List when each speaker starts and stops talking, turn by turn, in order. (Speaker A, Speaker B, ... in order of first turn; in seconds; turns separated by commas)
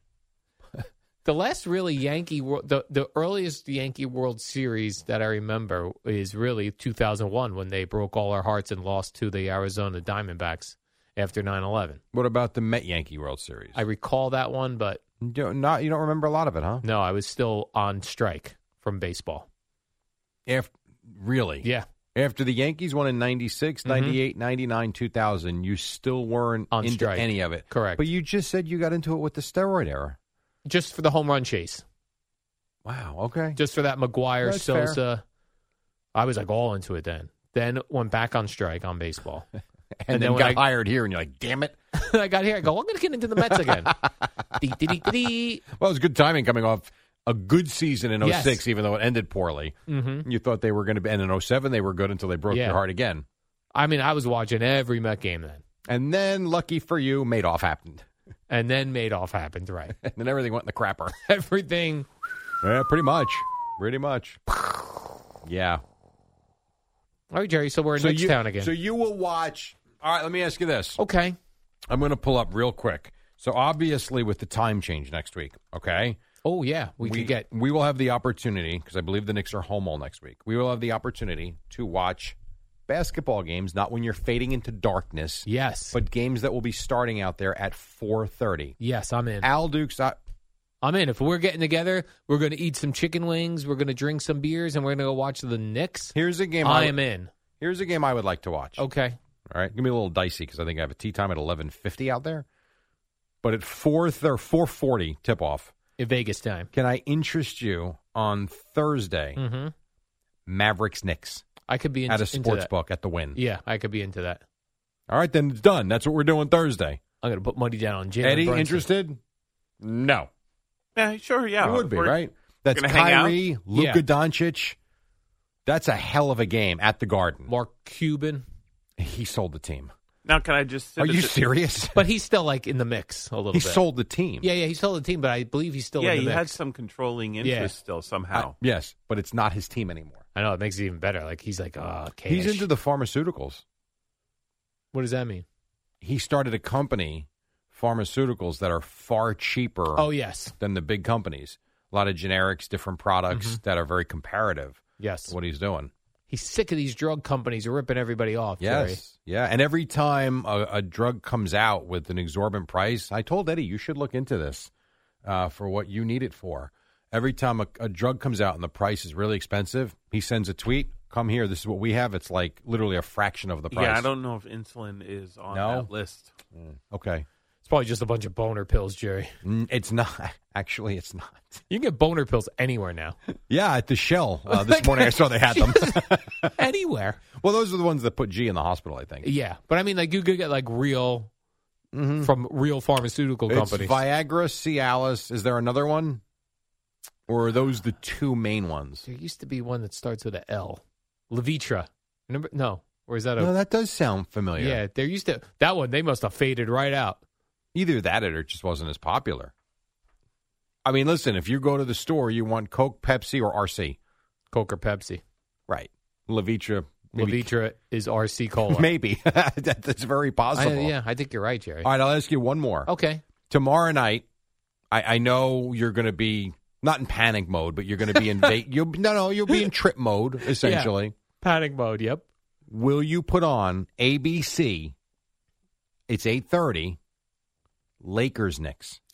Speaker A: 1.2-12.0, Speaker B: 12.1-13.8, Speaker A: 13.7-15.0, Speaker B: 15.2-16.8, Speaker A: 16.8-19.5, Speaker B: 20.4-30.1, Speaker A: 23.8-24.2, Speaker A: 26.7-28.0, Speaker A: 30.6-31.8, Speaker B: 32.8-33.6, Speaker A: 33.5-35.2, Speaker B: 34.4-35.0, Speaker A: 36.1-39.5, Speaker B: 40.0-41.8, Speaker A: 40.1-40.6, Speaker A: 41.9-44.0, Speaker A: 44.6-45.6, Speaker B: 45.7-53.2, Speaker A: 48.2-48.6, Speaker A: 49.9-50.3, Speaker A: 52.5-52.8, Speaker A: 53.7-55.6, Speaker B: 55.9-58.0, Speaker A: 58.5-60.0, Speaker B: 60.0-61.1, Speaker A: 61.1-62.1, Speaker B: 62.6-64.4, Speaker B: 65.4-65.8, Speaker A: 67.3-68.7, Speaker B: 68.0-71.0, Speaker A: 71.0-71.3, Speaker B: 71.9-76.2, Speaker A: 76.4-77.4, Speaker B: 77.0-82.4, Speaker B: 82.9-88.8, Speaker A: 85.5-86.0, Speaker A: 88.8-89.5, Speaker B: 89.4-90.2, Speaker A: 90.8-97.3, Speaker B: 96.1-97.0, Speaker B: 97.6-98.8, Speaker A: 98.8-99.2, Speaker B: 99.5-102.4, Speaker B: 103.4-105.7, Speaker A: 106.0-106.7, Speaker B: 106.7-109.4, Speaker A: 109.3-109.7, Speaker B: 110.5-111.4, Speaker A: 111.7-112.7, Speaker B: 112.1-113.4, Speaker A: 113.3-114.4, Speaker B: 115.1-117.0, Speaker A: 117.2-118.9, Speaker B: 118.2-119.2, Speaker B: 119.8-120.3, Speaker C: 121.0-123.4, Speaker B: 121.6-124.8, Speaker A: 123.7-124.0, Speaker B: 125.7-127.5, Speaker A: 127.5-128.4, Speaker B: 129.0-129.9, Speaker C: 130.2-131.4, Speaker B: 131.0-132.1, Speaker A: 131.9-133.8, Speaker B: 133.5-134.5, Speaker A: 134.4-136.6, Speaker C: 136.0-138.6, Speaker A: 137.4-137.7, Speaker B: 138.3-140.2, Speaker A: 140.3-142.7, Speaker B: 142.3-143.6, Speaker A: 144.9-145.4, Speaker B: 146.0-155.9, Speaker A: 149.9-150.5, Speaker A: 153.3-153.6, Speaker A: 155.0-155.3, Speaker A: 156.3-159.0, Speaker B: 158.6-164.7, Speaker B: 165.2-174.1, Speaker C: 173.7-176.3, Speaker B: 175.5-175.9, Speaker B: 176.5-177.2, Speaker A: 177.6-179.3, Speaker B: 179.4-181.6, Speaker A: 181.7-183.2, Speaker B: 183.5-186.5, Speaker A: 184.5-187.2, Speaker B: 187.4-189.3, Speaker A: 189.2-191.3, Speaker B: 191.9-192.3, Speaker A: 192.2-194.0, Speaker B: 193.5-196.2, Speaker B: 197.3-199.1, Speaker A: 199.1-203.5, Speaker B: 203.4-204.8, Speaker A: 204.6-207.2, Speaker B: 207.7-209.5, Speaker B: 210.8-214.0, Speaker A: 214.5-215.2, Speaker B: 215.7-217.5, Speaker A: 217.1-218.9, Speaker B: 218.7-220.9, Speaker A: 220.5-221.9, Speaker B: 221.8-222.9, Speaker A: 222.9-223.2, Speaker B: 223.5-224.2, Speaker B: 224.9-231.1, Speaker A: 228.2-228.4, Speaker A: 230.5-232.2, Speaker B: 232.7-234.9, Speaker B: 236.1-237.0, Speaker B: 238.0-239.0